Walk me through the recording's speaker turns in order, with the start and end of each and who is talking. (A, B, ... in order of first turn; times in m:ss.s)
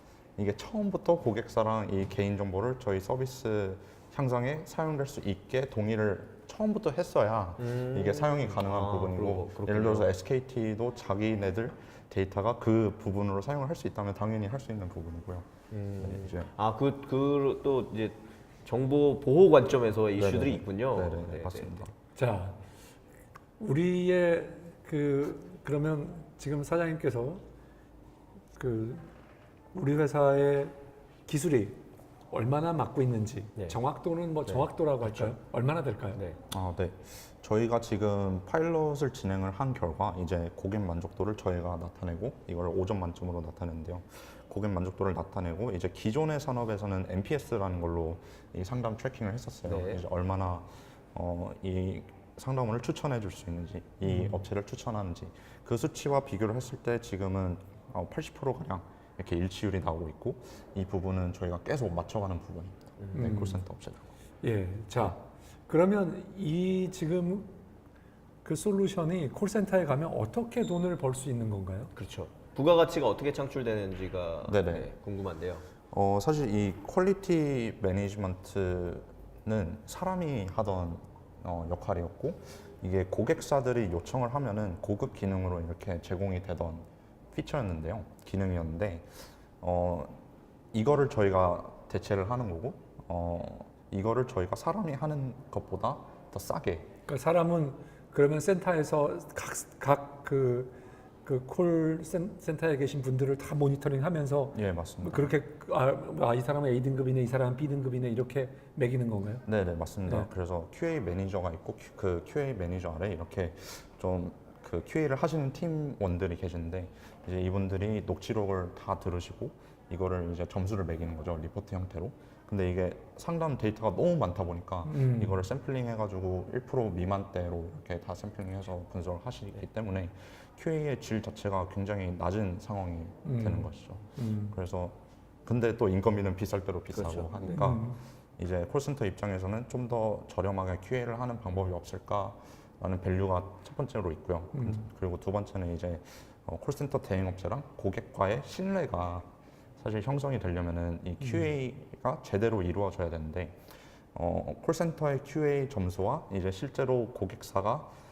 0:00.4-0:15.5 A
0:07.6-0:10.1 B
0:15.7-0:21.8 B
0:16.0-0:16.5 A
0:20.2-0:21.9 A
0:22.2-0:22.6 C
0:23.6-0:27.4 C
0:28.6-0:29.1 C
0:29.7-0:30.7 C
0:31.3-0:36.2 C
0:34.5-0:35.4 B
0:36.1-0:36.4 B
0:36.5-1:04.1 A
0:49.7-0:50.0 B
0:54.0-0:54.4 C
1:03.0-1:03.3 B
1:03.1-1:03.6 C
1:04.4-1:07.5 C
1:08.4-1:11.9 C
1:12.0-1:15.6 B
1:14.5-1:14.9 A
1:15.9-1:30.2 A
1:30.7-1:36.9 A
1:37.1-1:49.5 C
1:44.5-1:45.3 A
1:49.5-2:29.3 A
1:50.0-1:50.3 C
2:04.8-2:05.4 C
2:13.2-2:14.6 C
2:16.9-2:17.6 B
2:17.5-2:18.0 C
2:24.5-2:24.8 C
2:29.8-2:33.6 A
2:31.2-2:31.5 C
2:34.1-2:37.9 A